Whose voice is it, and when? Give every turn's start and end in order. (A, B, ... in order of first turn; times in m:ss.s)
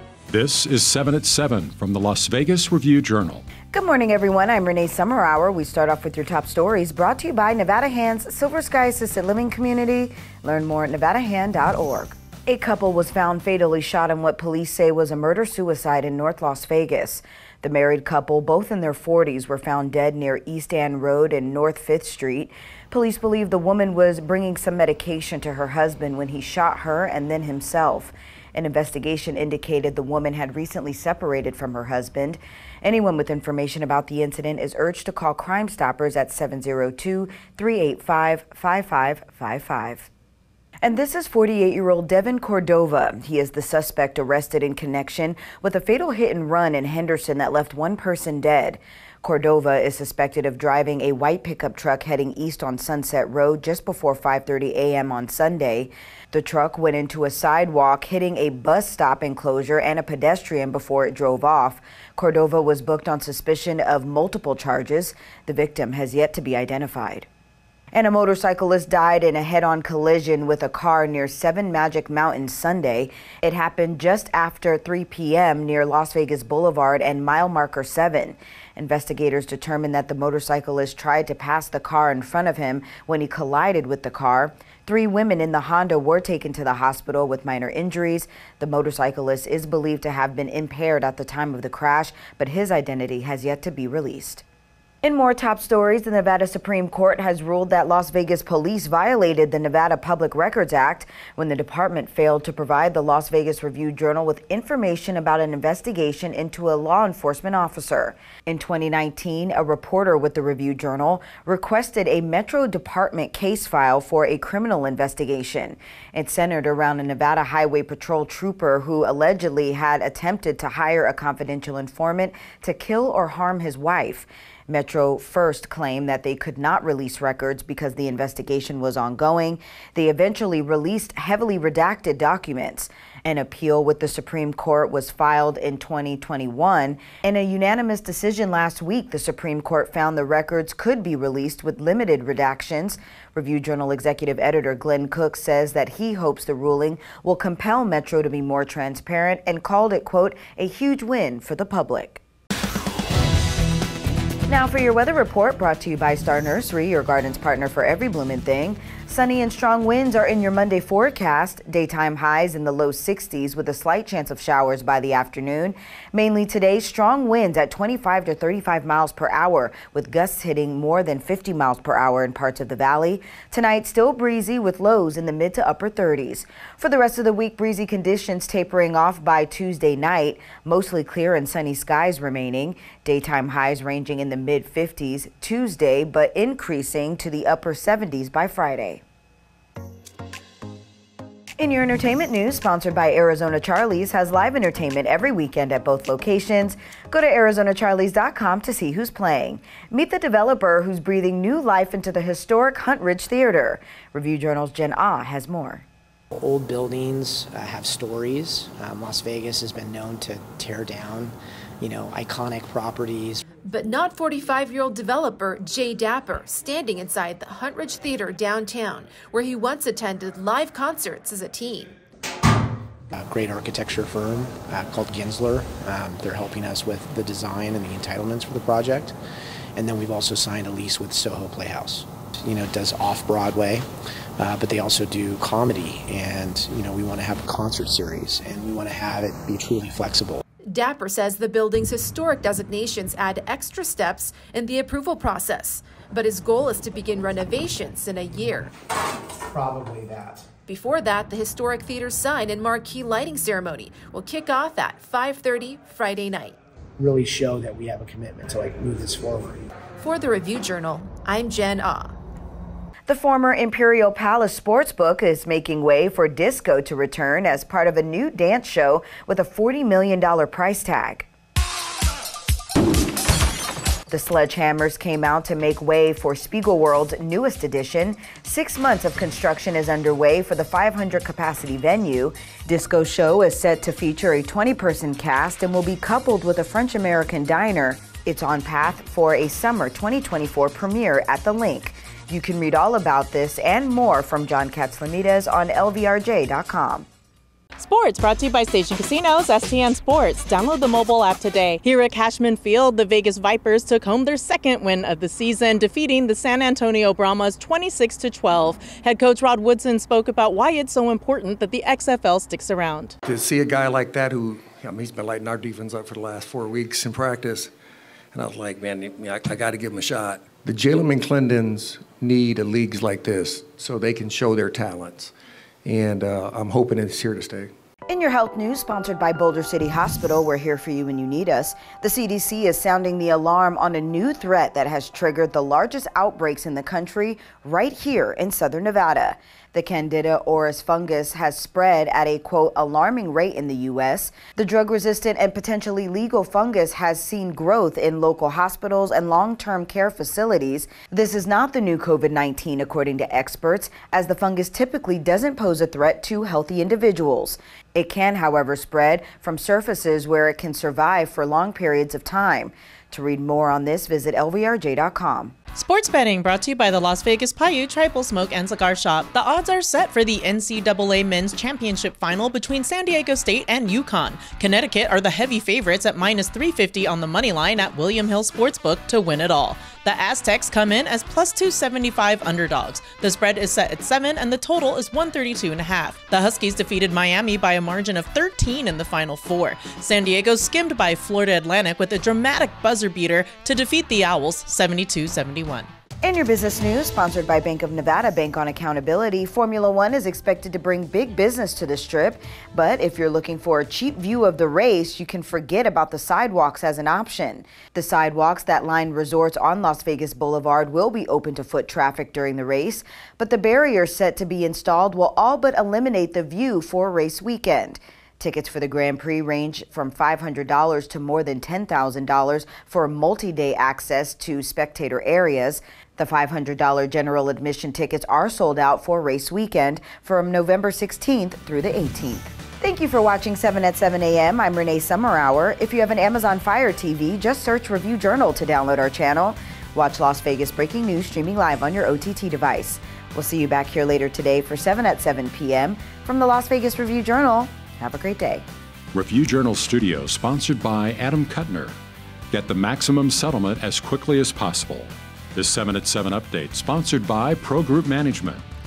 0:00.3-0:03.4 A
0:03.7-0:40.1 B
0:40.8-1:07.3 B
1:07.9-1:34.4 B
1:35.0-2:32.2 B
2:34.5-3:09.0 B
3:11.6-3:25.8 B
3:26.3-3:33.5 C
3:33.6-3:41.9 D
3:43.1-3:49.2 C
3:49.8-3:53.9 C
3:54.4-4:00.4 C
4:00.7-4:08.7 D
4:09.4-4:10.5 C
4:10.7-4:16.6 D
4:17.0-4:19.6 C
4:20.0-4:22.1 D
4:23.1-4:31.3 B
4:34.1-4:57.1 B
4:57.8-5:13.2 E
5:13.2-5:17.7 F
5:18.3-5:25.3 F
5:25.8-5:27.7 F
5:28.1-6:05.5 B
6:05.8-6:35.9 E
6:36.2-7:28.6 B
7:29.1-7:32.0 A
7:32.5-7:38.6 A